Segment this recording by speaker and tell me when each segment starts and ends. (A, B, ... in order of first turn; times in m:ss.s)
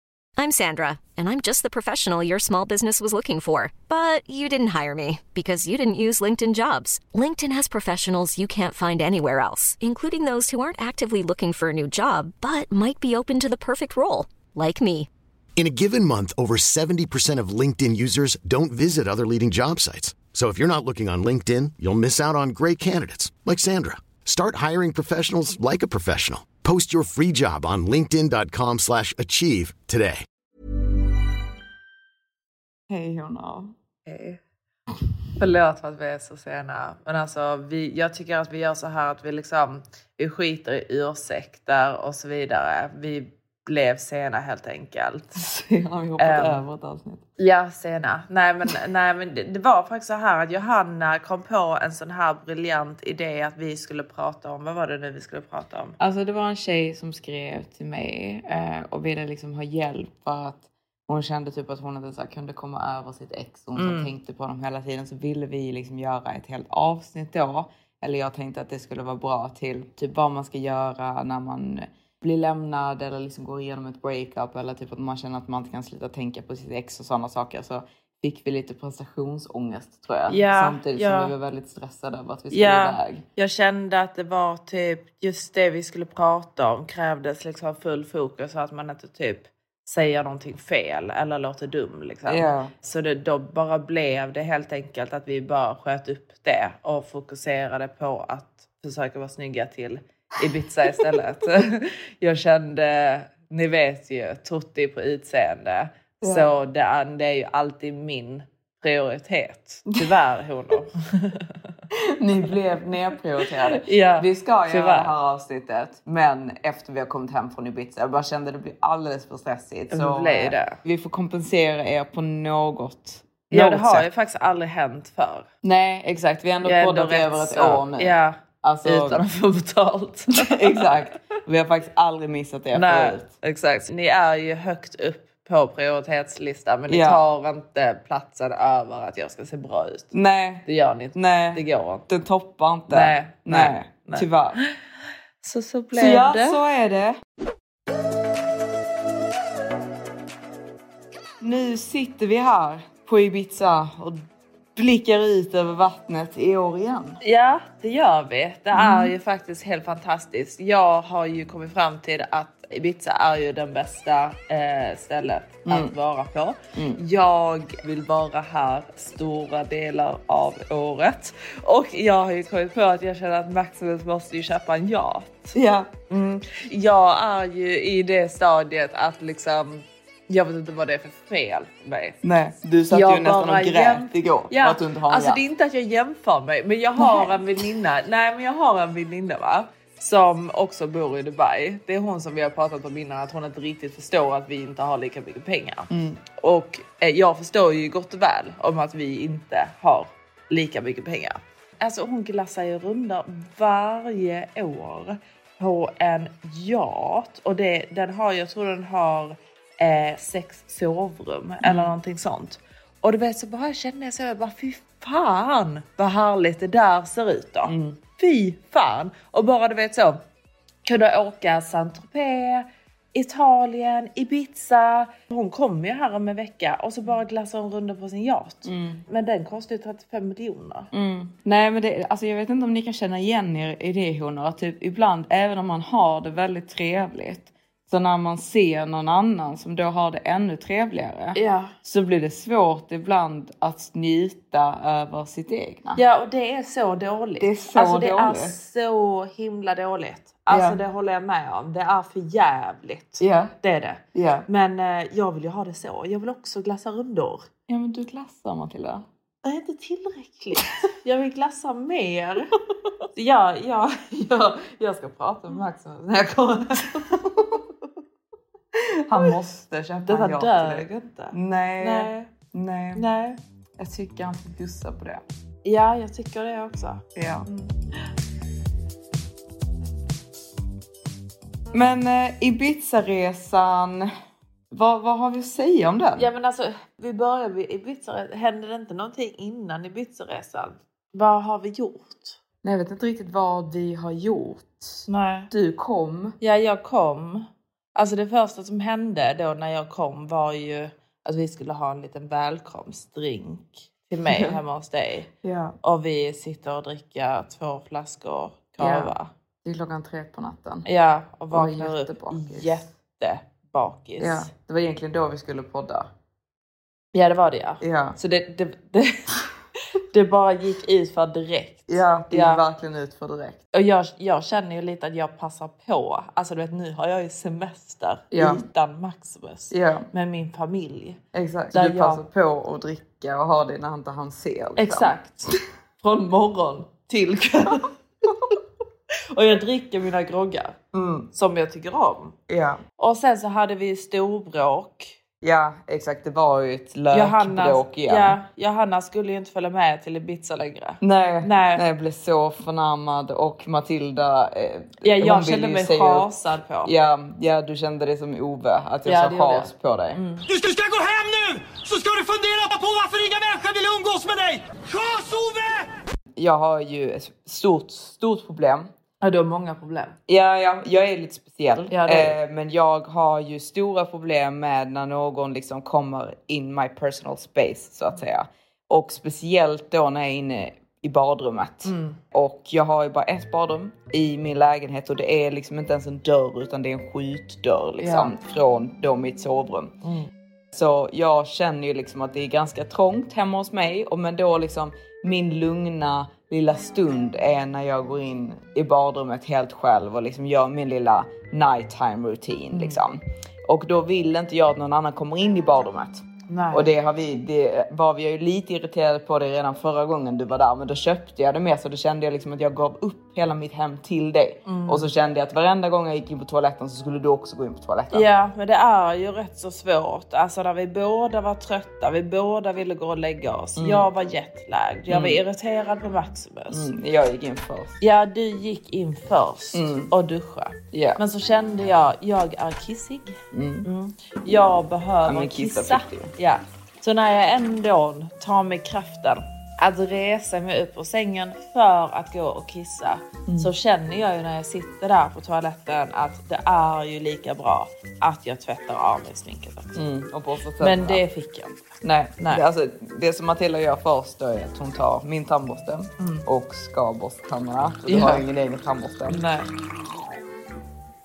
0:00.4-0:15.1 A
0:15.6-0:30.2 B
0:32.9-0:33.7 C
0:34.1-0:34.4 D
0:35.4-0:45.4 D
0:45.4-0:47.2 C
0:46.2-0:46.6 D
0:47.4-0:56.0 D
0:56.0-1:23.2 C
1:03.7-1:04.1 D
1:20.3-1:21.3 D
1:22.5-1:51.5 D
1:32.3-1:32.7 C
1:46.2-1:46.5 C
1:51.9-2:04.0 C
1:53.6-1:55.1 D
1:59.9-2:00.8 D
2:03.5-2:05.5 D
2:05.6-2:09.2 C
2:06.6-2:10.9 D
2:10.4-2:13.2 C
2:12.7-2:22.0 D
2:16.9-2:17.2 C
2:20.1-2:24.6 C
2:22.9-2:24.7 D
2:25.4-2:26.6 D
2:25.9-2:27.2 C
2:31.4-2:37.2 C
2:37.2-2:55.5 D
2:38.7-2:39.1 C
2:45.6-2:45.9 C
2:46.7-2:47.0 C
2:55.5-2:55.9 C
2:56.1-3:02.2 D
3:02.2-3:05.4 C
3:02.9-3:40.2 D
3:07.0-3:07.4 C
3:15.9-3:16.2 C
3:31.6-3:31.9 C
3:37.6-3:38.0 C
3:40.8-3:50.9 D
3:48.6-3:49.0 C
3:50.9-4:06.0 C
4:01.3-4:01.7 D
4:06.0-4:17.5 D
4:07.4-4:08.6 C
4:10.5-4:10.8 C
4:13.2-4:13.5 C
4:14.1-4:14.4 C
4:17.7-4:19.0 C
4:19.4-4:22.5 D
4:23.1-4:27.1 D
4:27.0-4:27.6 C
4:28.7-4:33.0 C
4:30.1-4:32.3 D
4:32.9-4:33.4 D
4:33.8-4:35.2 C
4:35.6-4:37.7 D
4:37.1-4:37.4 C
4:41.7-4:44.1 C
4:44.7-4:46.3 C
4:46.2-4:52.4 D
4:52.6-4:56.4 C
4:55.1-4:55.5 D
4:56.4-5:05.3 D
5:04.3-5:04.6 C
5:05.4-5:05.8 C
5:05.8-5:09.3 D
5:08.8-5:09.1 C
5:09.6-5:10.8 C
5:10.8-5:14.5 D
5:11.5-5:12.8 C
5:14.2-5:16.1 C
5:17.1-5:19.4 D
5:17.8-5:18.2 C
5:19.9-5:22.6 D
5:21.9-5:23.6 C
5:23.7-5:31.2 D
5:28.3-5:28.6 C
5:29.7-5:30.0 C
5:31.3-5:35.1 C
5:31.7-5:32.2 D
5:34.8-5:37.9 D
5:39.3-5:40.8 D
5:40.9-5:41.3 C
5:41.3-5:42.3 D
5:42.5-5:42.8 C
5:43.0-5:45.1 D
5:45.4-5:48.4 C
5:47.1-5:51.8 D
5:51.0-5:56.3 C
5:55.0-5:56.9 D
5:56.8-6:00.2 C
5:59.0-6:00.4 D
6:00.4-6:05.9 E
6:06.4-6:08.9 C
6:09.2-6:10.2 D
6:10.3-6:29.9 C
6:11.9-6:12.4 D
6:21.8-6:22.2 D
6:28.0-6:28.3 D
6:30.0-6:30.3 D
6:30.7-6:58.3 C
6:42.7-6:43.0 D
6:46.5-6:46.9 D
6:54.6-6:55.1 D
6:58.1-7:06.9 D
7:03.8-7:04.1 C
7:05.1-7:05.4 C
7:06.7-7:08.0 C
7:08.0-7:30.0 D
7:09.7-7:10.1 C
7:10.9-7:11.2 C
7:13.5-7:13.9 C
7:15.2-7:16.3 C
7:29.9-7:31.2 C
7:30.8-7:32.6 D
7:32.0-7:39.4 C
7:36.2-7:36.4 D
7:38.0-7:38.4 D
7:39.3-7:39.7 D